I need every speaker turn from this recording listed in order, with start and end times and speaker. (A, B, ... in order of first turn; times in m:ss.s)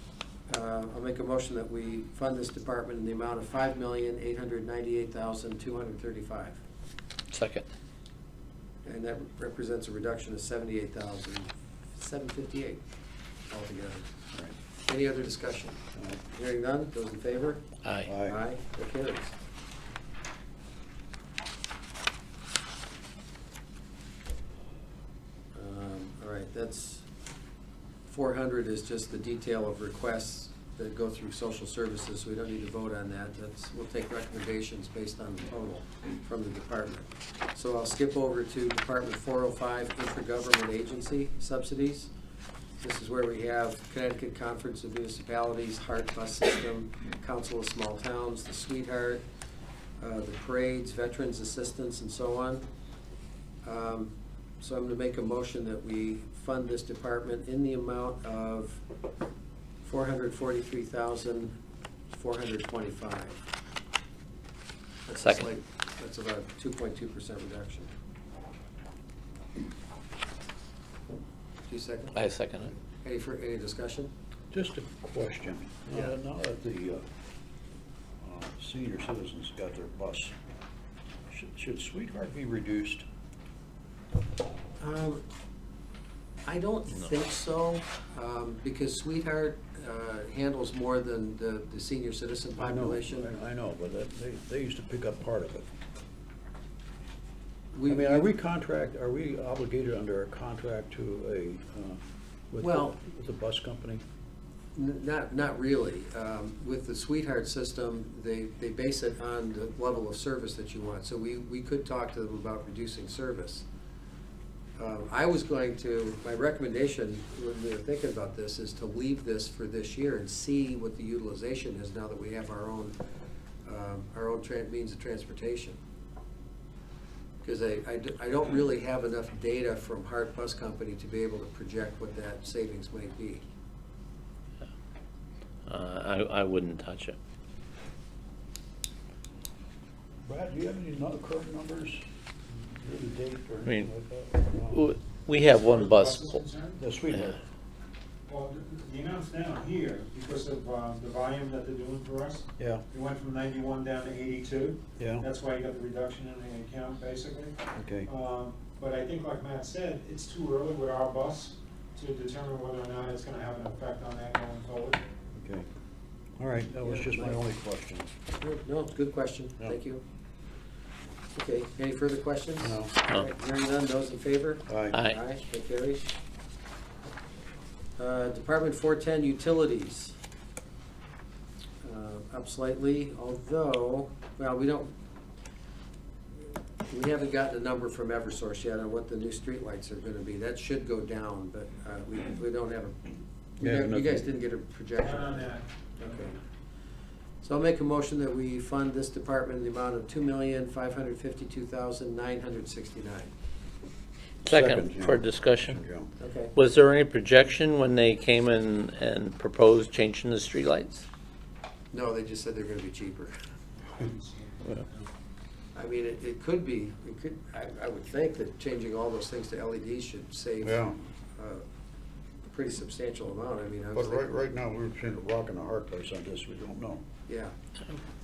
0:00.5-0:06.6 A
0:07.3-0:07.6 B
0:08.8-0:12.8 A
0:13.5-0:14.1 A
0:14.9-0:17.6 A
0:15.9-0:16.2 C
0:17.8-0:18.1 B
0:18.0-0:18.4 C
0:18.2-0:19.3 A
0:25.5-0:27.0 A
0:28.1-0:42.1 A
0:42.8-0:49.2 A
0:50.0-0:52.6 A
0:53.6-0:58.8 A
0:59.8-1:01.6 A
1:02.1-1:03.4 A
1:05.1-1:07.9 A
1:05.2-1:05.5 B
1:11.7-1:14.1 A
1:12.1-1:12.7 B
1:14.5-1:17.0 C
1:18.2-1:20.3 C
1:21.3-1:23.0 C
1:24.8-1:25.2 A
1:26.4-1:33.3 A
1:32.6-1:35.6 C
1:37.7-1:38.2 A
1:37.9-1:44.0 C
1:42.6-1:42.9 A
1:44.7-1:53.6 A
1:54.8-2:02.9 A
2:03.6-2:05.8 A
2:07.4-2:13.4 A
2:15.7-2:17.2 B
2:20.2-2:24.8 C
2:24.7-2:26.4 B
2:25.4-2:26.8 D
2:26.8-2:27.4 C
2:28.3-2:45.0 D
2:32.6-2:32.8 C
2:35.0-2:35.2 C
2:37.8-2:38.1 C
2:45.3-2:45.7 C
2:46.4-2:48.1 C
2:46.8-2:47.4 A
2:48.4-2:50.0 A
2:51.3-2:56.1 A
2:52.6-2:52.9 C
2:54.7-2:55.0 C
2:58.0-3:00.2 A
3:01.8-3:04.9 A
3:06.9-3:13.0 A
3:13.6-3:16.4 A
3:13.6-3:14.2 C
3:15.0-3:16.3 D
3:17.4-3:23.3 A
3:24.4-3:25.8 B
3:24.4-3:26.1 C
3:26.2-3:26.5 A
3:26.5-3:31.0 B
3:31.9-3:33.3 A
3:33.9-3:35.1 D
3:35.7-3:41.6 A
3:40.6-3:41.0 C
3:42.4-3:44.3 A
3:43.9-3:47.0 C
3:47.3-3:47.5 A